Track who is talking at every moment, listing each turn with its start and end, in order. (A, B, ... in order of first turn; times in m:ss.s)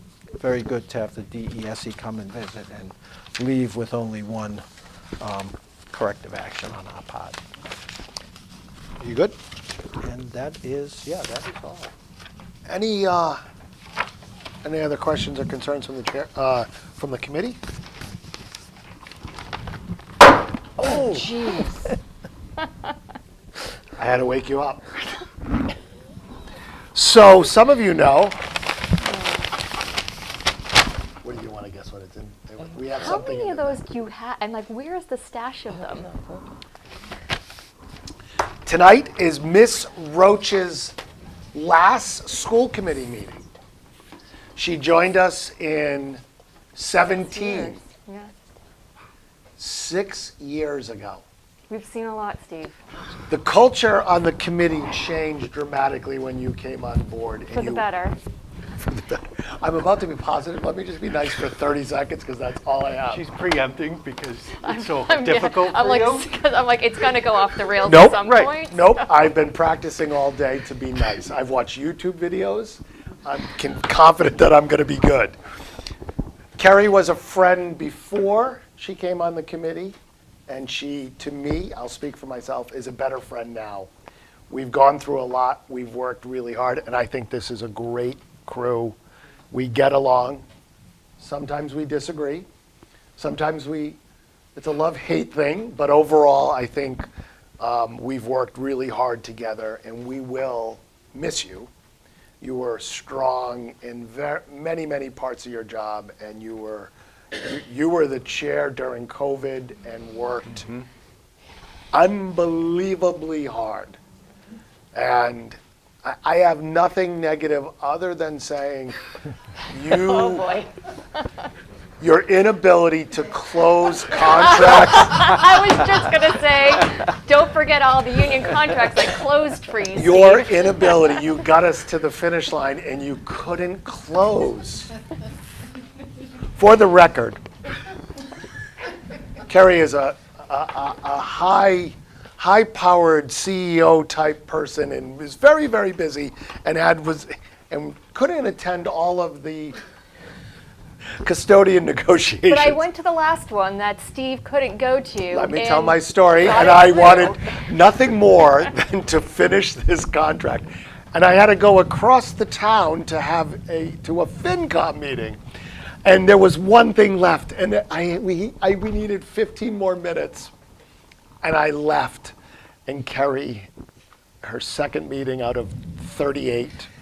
0:00.4-0:04.6 A
0:05.2-0:07.4 A
0:09.0-0:09.4 A
0:10.0-0:11.9 A
0:12.7-0:13.4 B
0:14.6-0:17.6 B
0:20.8-0:22.0 C
0:20.8-0:21.2 B
0:24.0-0:24.9 B
0:26.9-0:28.4 B
0:29.0-0:29.5 C
0:31.2-0:33.8 B
0:33.0-0:36.2 C
0:38.6-0:41.0 B
0:41.5-0:43.4 B
0:44.6-0:46.2 B
0:46.8-0:47.8 B
0:47.0-0:48.3 C
0:49.6-0:51.2 B
0:51.7-0:52.8 C
0:53.3-0:57.9 B
0:57.5-0:58.2 C
0:58.8-1:03.2 B
1:03.1-1:06.4 D
1:04.6-1:09.1 C
1:07.8-1:15.4 B
1:16.6-1:23.9 B
1:24.5-1:29.0 B
1:29.5-1:30.4 B
1:31.2-1:32.5 B
1:33.2-1:34.0 B
1:34.6-1:37.1 B
1:37.6-1:41.7 B
1:42.4-1:50.8 B
1:51.9-1:54.0 B
1:54.9-1:59.0 B
1:59.7-2:00.5 B
1:59.9-2:00.7 C
2:02.0-2:05.2 B
2:04.9-2:11.2 C
2:10.0-2:14.9 B
2:16.6-2:17.4 B
2:19.5-2:29.8 B
2:31.2-2:32.8 B
2:32.5-2:37.6 C
2:35.3-2:45.4 B
2:46.0-2:50.5 B
2:51.4-2:52.4 B
2:52.9-2:53.7 B
2:54.4-2:56.9 B